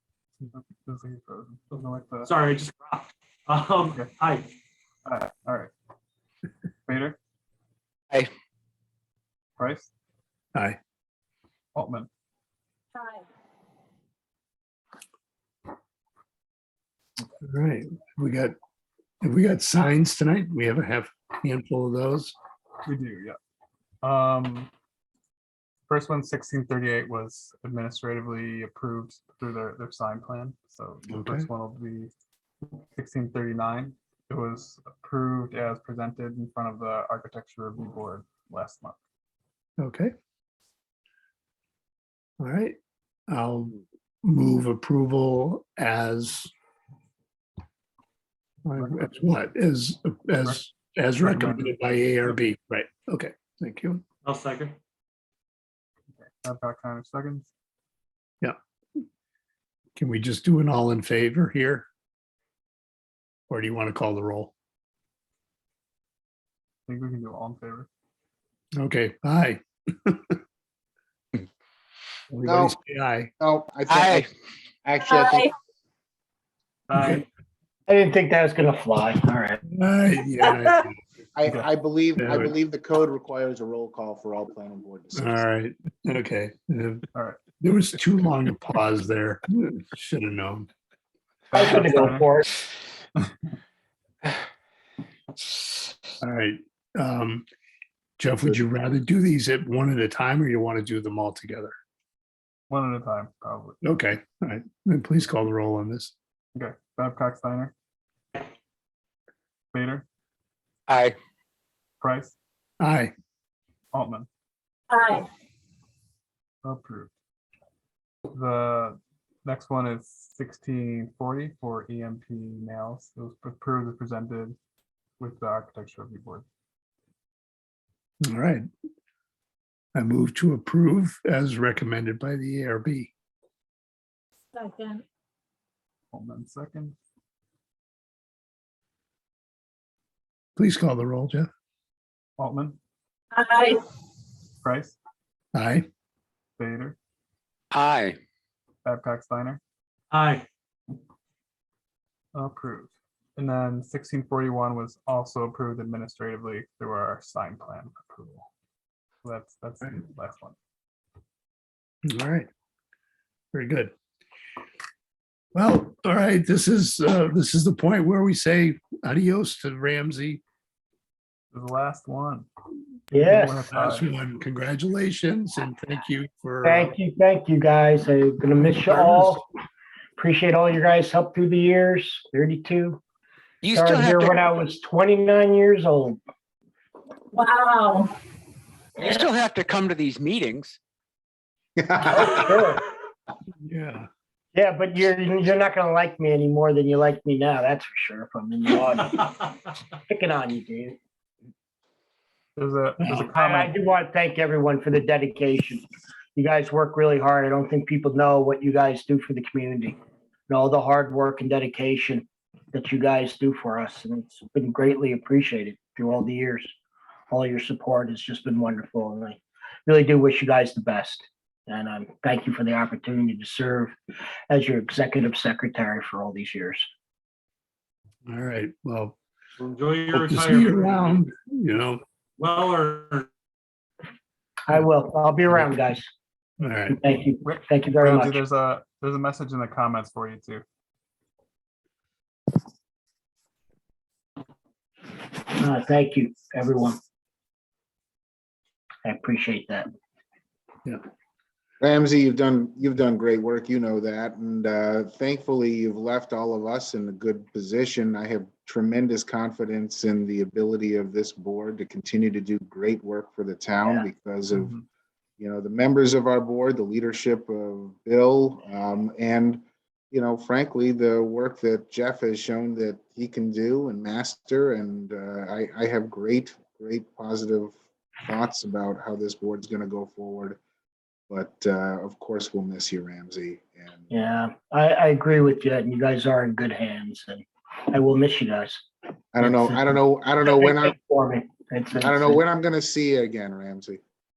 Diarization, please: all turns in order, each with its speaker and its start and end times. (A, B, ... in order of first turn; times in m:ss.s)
0:00.5-0:02.3 A
0:02.2-0:04.5 B
0:05.0-0:05.7 A
0:06.9-0:07.2 A
0:09.6-0:09.9 A
0:11.7-0:12.1 A
0:13.0-0:13.2 C
0:17.4-0:18.5 D
0:19.2-0:22.3 D
0:22.8-0:23.4 A
0:24.0-0:24.7 A
0:25.9-0:32.1 A
0:31.1-0:31.5 D
0:32.9-0:39.0 A
0:39.8-0:40.1 D
0:42.4-0:42.8 D
0:43.3-0:46.5 D
0:48.6-0:54.0 D
0:48.8-0:49.1 A
0:51.2-0:52.4 A
0:54.2-0:54.8 B
0:56.2-0:57.5 A
1:00.0-1:01.9 D
1:03.5-1:04.5 D
1:06.9-1:07.9 A
1:08.8-1:10.4 D
1:12.3-1:13.3 D
1:12.4-1:12.8 E
1:13.4-1:14.2 E
1:13.9-1:14.3 F
1:14.8-1:15.5 E
1:15.0-1:15.5 C
1:16.9-1:17.2 A
1:17.0-1:17.2 D
1:17.9-1:19.6 G
1:19.7-1:20.9 D
1:21.4-1:25.3 E
1:22.2-1:22.5 D
1:25.1-1:27.0 D
1:27.6-1:30.7 D
1:31.5-1:32.3 A
1:31.5-1:32.5 G
1:36.2-1:37.4 D
1:38.2-1:41.7 D
1:42.7-1:43.8 A
1:43.8-1:46.1 D
1:46.5-1:47.7 A
1:49.7-1:50.0 A
1:50.9-1:51.2 F
1:52.0-1:52.3 A
1:52.8-1:53.1 D
1:53.9-1:54.3 A
1:54.9-1:55.3 C
1:56.6-1:57.1 A
1:58.3-2:04.6 A
2:05.2-2:06.4 A
2:08.2-2:08.7 D
2:09.9-2:13.1 D
2:14.5-2:15.0 C
2:16.1-2:17.0 A
2:20.6-2:21.5 D
2:22.4-2:22.8 A
2:23.3-2:23.8 C
2:24.6-2:25.0 A
2:25.5-2:25.9 D
2:26.6-2:27.0 A
2:27.7-2:28.2 F
2:28.8-2:29.6 A
2:30.1-2:30.4 B
2:32.3-2:38.5 A
2:39.2-2:40.6 A
2:42.0-2:42.5 D
2:43.5-2:43.9 D
2:45.5-2:50.4 D
2:51.5-2:52.5 A
2:53.1-2:53.7 G
2:53.1-2:54.1 A
2:53.7-2:56.9 D
2:56.6-2:59.4 G
2:58.9-2:59.4 D
3:00.2-3:03.0 G
3:03.6-3:04.4 F
3:03.7-3:06.2 G
3:07.3-3:08.1 C
3:09.0-3:10.8 F
3:11.8-3:12.6 E
3:12.0-3:12.8 G
3:13.6-3:14.1 D
3:14.5-3:19.5 G
3:20.1-3:21.0 G
3:22.6-3:23.7 A
3:23.1-3:30.0 G
3:30.5-3:36.7 G
3:37.3-3:43.9 G
3:44.5-3:46.9 G
3:48.2-3:49.2 D
3:49.6-3:51.2 B
3:50.1-3:52.0 D
3:52.4-3:53.3 B
3:54.7-3:56.1 G
3:56.6-3:57.0 D
3:56.9-3:58.4 G
3:57.4-4:00.6 A
4:05.5-4:07.0 G
4:09.0-4:09.9 G
4:11.8-4:24.7 E
4:24.5-4:24.8 A
4:25.4-4:40.6 E
4:41.3-4:44.1 E
4:44.1-4:48.8 G
4:49.3-4:51.0 E
4:49.4-4:52.4 G
4:52.0-4:54.0 E